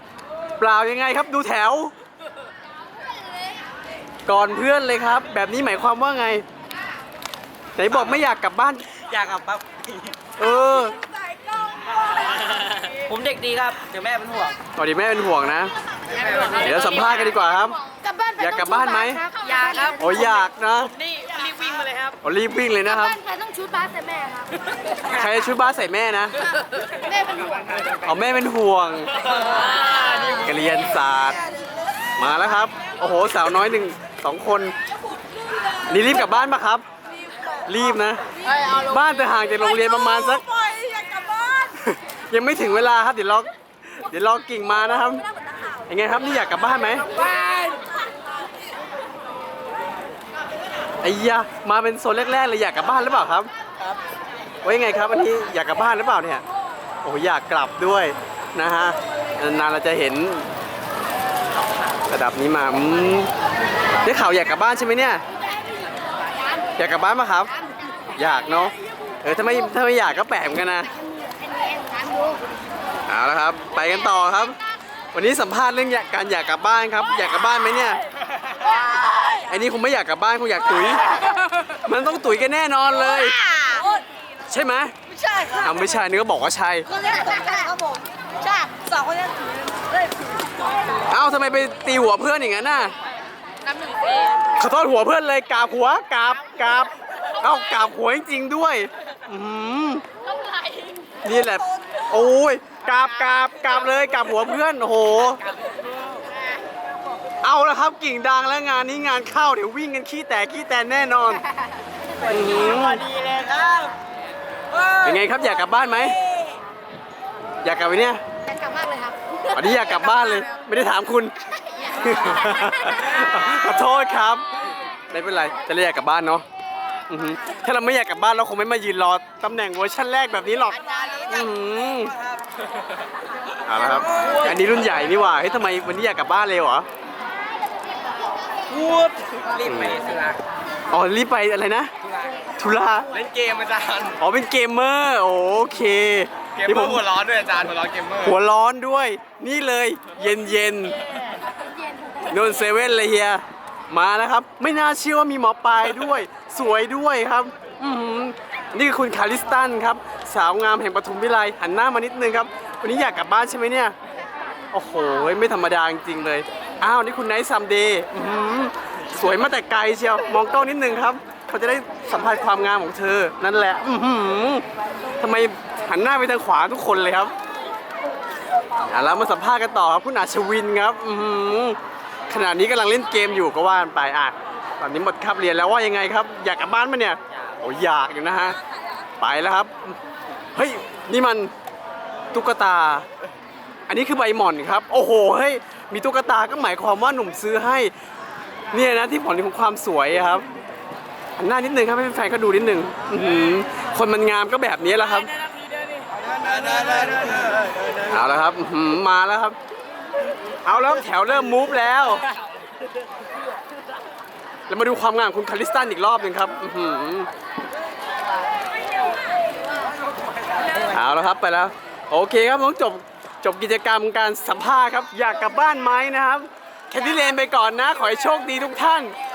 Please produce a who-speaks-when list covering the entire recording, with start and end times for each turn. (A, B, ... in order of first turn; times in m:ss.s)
0:00.6-0:01.9 A
0:04.2-0:06.4 A
0:07.8-0:08.8 A
0:08.9-0:10.1 B
0:10.4-0:11.0 A
0:12.4-0:14.6 B
0:14.7-0:15.7 A
0:16.2-0:16.6 B
0:16.5-0:17.8 A
0:18.0-0:20.2 C
0:18.4-0:19.3 A
0:19.6-0:19.9 B
0:20.0-0:20.9 A
0:21.0-0:22.1 B
0:22.2-0:23.2 A
0:23.0-0:24.6 C
0:25.0-0:26.5 A
0:27.1-0:27.5 C
0:27.9-0:29.3 A
0:30.1-0:31.4 A
0:32.2-0:34.7 A
0:35.8-0:36.8 A
0:37.6-0:40.7 A
0:41.6-0:45.2 A
0:45.8-0:47.2 A
0:51.0-0:53.5 A
0:54.6-0:56.4 A
0:57.0-1:00.5 A
1:02.1-1:03.3 A
1:04.0-1:05.2 A
1:06.7-1:07.5 A
1:08.2-1:10.9 A
1:11.2-1:12.4 C
1:13.1-1:14.6 A
1:15.1-1:18.0 A
1:19.3-1:23.5 A
1:23.4-1:24.0 C
1:24.5-1:24.9 A
1:25.5-1:26.9 A
1:26.9-1:30.0 C
1:31.1-1:32.9 A
1:33.7-1:34.2 C
1:34.5-1:40.0 A
1:41.2-1:45.4 A
1:47.4-1:51.4 A
1:52.2-1:53.1 A
1:53.0-1:53.9 B
1:55.0-1:56.2 A
1:57.6-1:58.2 A
1:58.4-1:59.2 C
1:59.5-2:04.5 A
2:05.1-2:06.4 A
2:07.1-2:12.2 A
2:10.9-2:11.3 B
2:13.6-2:16.9 A
2:14.1-2:14.5 B
2:18.7-2:20.4 B
2:19.6-2:20.0 A
2:20.9-2:21.9 A
2:22.0-2:22.4 B
2:22.6-2:23.1 A
2:23.1-2:24.2 B
2:24.2-2:27.1 A
2:26.6-2:28.3 B
2:28.2-2:31.0 A
2:32.2-2:43.9 A
2:44.7-2:54.6 A
2:55.2-2:57.3 A
2:58.8-3:01.8 A
3:02.3-3:08.6 A
3:09.2-3:10.0 A
3:10.5-3:11.5 A
3:12.3-3:13.0 A
3:13.9-3:17.9 A
3:18.7-3:20.4 A
3:21.4-3:25.3 A
3:26.5-3:27.0 B
3:28.0-3:29.6 A
3:30.6-3:32.2 A
3:34.7-3:37.3 A
3:40.9-3:49.1 A